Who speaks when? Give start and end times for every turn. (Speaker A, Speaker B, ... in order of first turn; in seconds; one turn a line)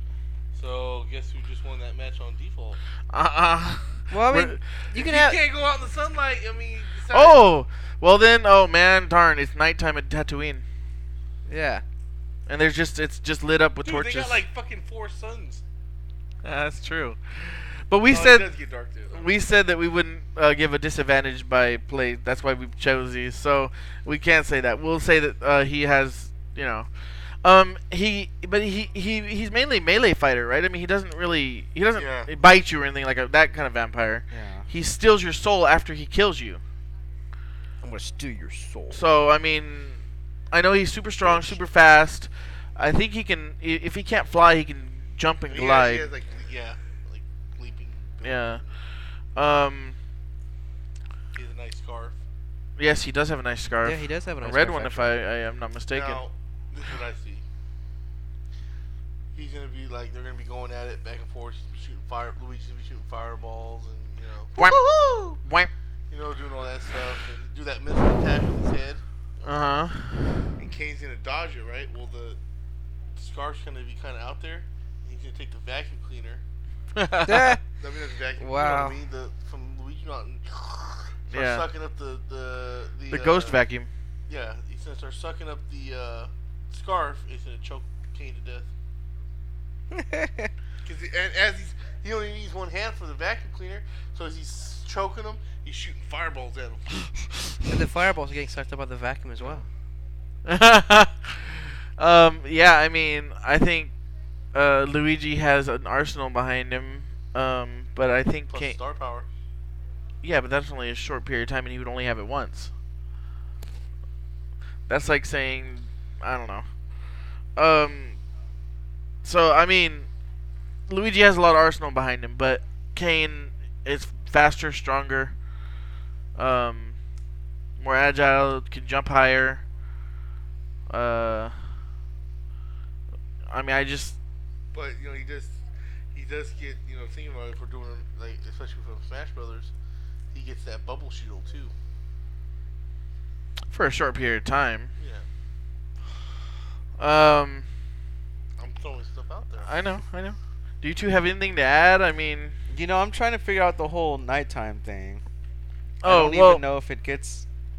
Speaker A: 0.5-2.8
Speaker B: 3.1-4.6
Speaker C: 4.1-5.4
Speaker A: 4.9-7.4
Speaker B: 7.1-10.6
Speaker C: 11.4-11.8
Speaker B: 12.5-14.4
Speaker A: 13.8-15.6
Speaker B: 16.4-18.5
Speaker A: 18.1-19.3
Speaker B: 19.1-26.9
Speaker B: 27.4-36.6
Speaker A: 31.9-32.3
Speaker D: 34.3-34.7
Speaker C: 37.8-39.0
Speaker B: 38.9-40.0
Speaker B: 40.5-46.1
Speaker A: 45.5-48.7
Speaker B: 48.2-48.6
Speaker B: 49.3-50.0
Speaker A: 51.3-52.2
Speaker B: 52.8-56.2
Speaker C: 53.8-55.1
Speaker A: 55.9-57.4
Speaker A: 59.3-65.4
Speaker B: 64.6-64.8
Speaker B: 65.3-65.7
Speaker A: 66.1-69.7
Speaker B: 69.4-70.5
Speaker A: 70.6-72.4
Speaker A: 73.2-76.4
Speaker B: 77.0-77.6
Speaker C: 77.2-77.6
Speaker A: 77.8-83.6
Speaker C: 78.4-79.0
Speaker B: 81.3-81.7
Speaker B: 83.1-83.9
Speaker A: 84.3-88.7
Speaker C: 89.9-90.5
Speaker A: 90.8-97.4
Speaker C: 97.7-99.7
Speaker B: 100.5-103.9
Speaker B: 104.5-108.8
Speaker A: 108.5-109.3
Speaker B: 110.2-112.7
Speaker B: 114.9-116.7
Speaker B: 117.5-118.2
Speaker B: 119.2-120.1
Speaker B: 120.9-125.3
Speaker B: 126.4-127.0
Speaker B: 127.8-129.6
Speaker B: 130.9-131.6
Speaker B: 133.5-134.2
Speaker A: 134.7-135.6
Speaker A: 136.1-139.7
Speaker A: 140.3-141.7
Speaker B: 143.7-144.9
Speaker A: 145.0-145.2
Speaker B: 147.0-147.7
Speaker A: 148.6-149.7
Speaker B: 149.6-152.6
Speaker D: 152.7-155.2
Speaker B: 156.0-156.6
Speaker D: 156.0-157.4